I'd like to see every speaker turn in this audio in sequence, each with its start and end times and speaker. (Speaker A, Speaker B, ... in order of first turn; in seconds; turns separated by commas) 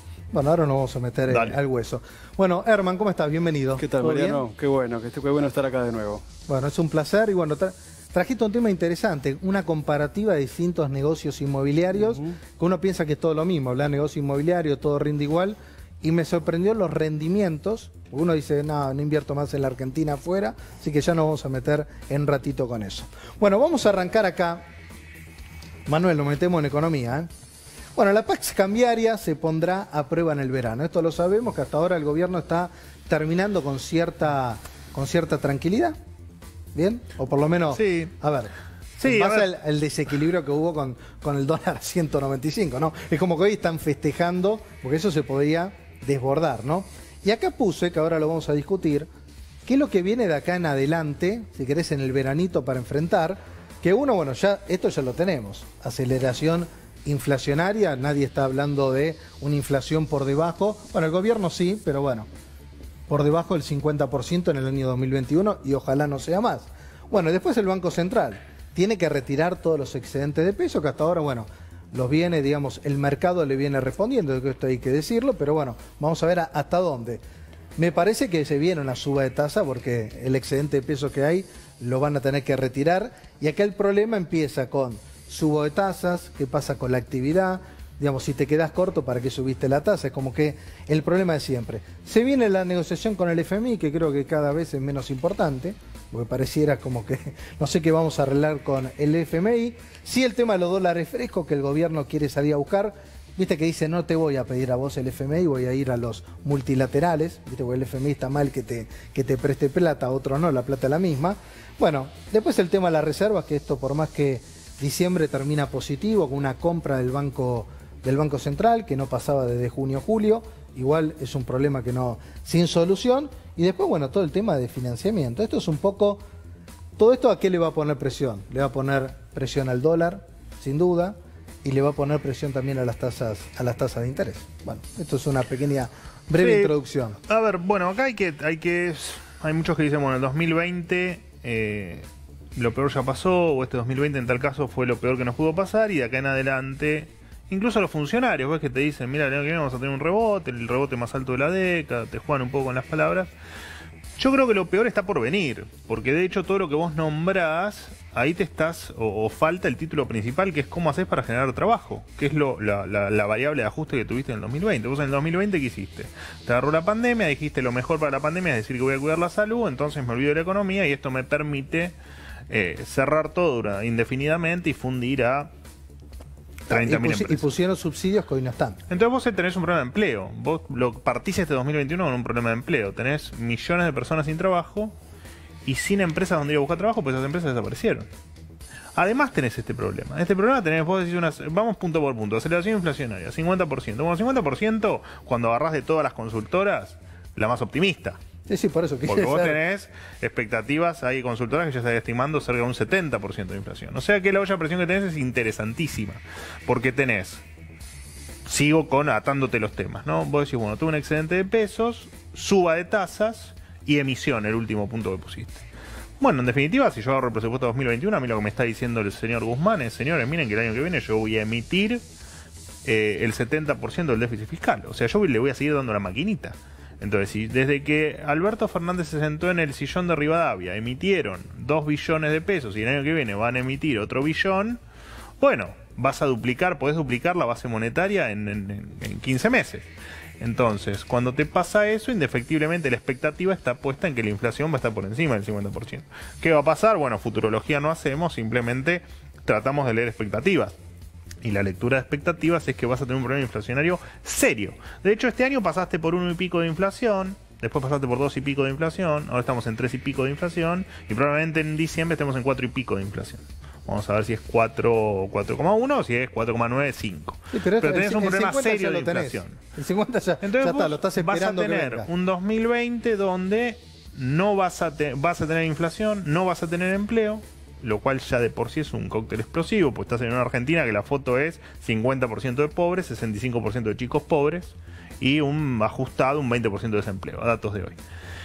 Speaker A: 0.3-4.4, Speaker B: 1.3-1.6, Speaker C: 3.8-6.2, Speaker A: 6.5-24.6, Speaker A: 25.9-27.3, Speaker A: 27.9-36.0, Speaker A: 36.7-49.1, Speaker B: 37.7-38.1, Speaker B: 39.0-39.5, Speaker A: 49.6-62.3, Speaker A: 63.1-77.2, Speaker A: 77.8-126.2, Speaker A: 127.0-137.2, Speaker B: 136.4-136.8, Speaker B: 137.3-153.3, Speaker B: 154.2-171.9, Speaker B: 172.5-175.5, Speaker B: 176.7-177.5, Speaker A: 176.7-178.8, Speaker B: 178.9-184.9, Speaker B: 185.6-188.1, Speaker B: 188.9-198.2, Speaker A: 198.5-199.6, Speaker B: 199.1-207.4, Speaker B: 208.4-215.6, Speaker B: 216.2-222.0, Speaker B: 222.8-234.8, Speaker B: 235.4-239.9, Speaker B: 240.4-250.7, Speaker B: 251.4-269.6, Speaker A: 267.5-272.1, Speaker B: 270.4-288.0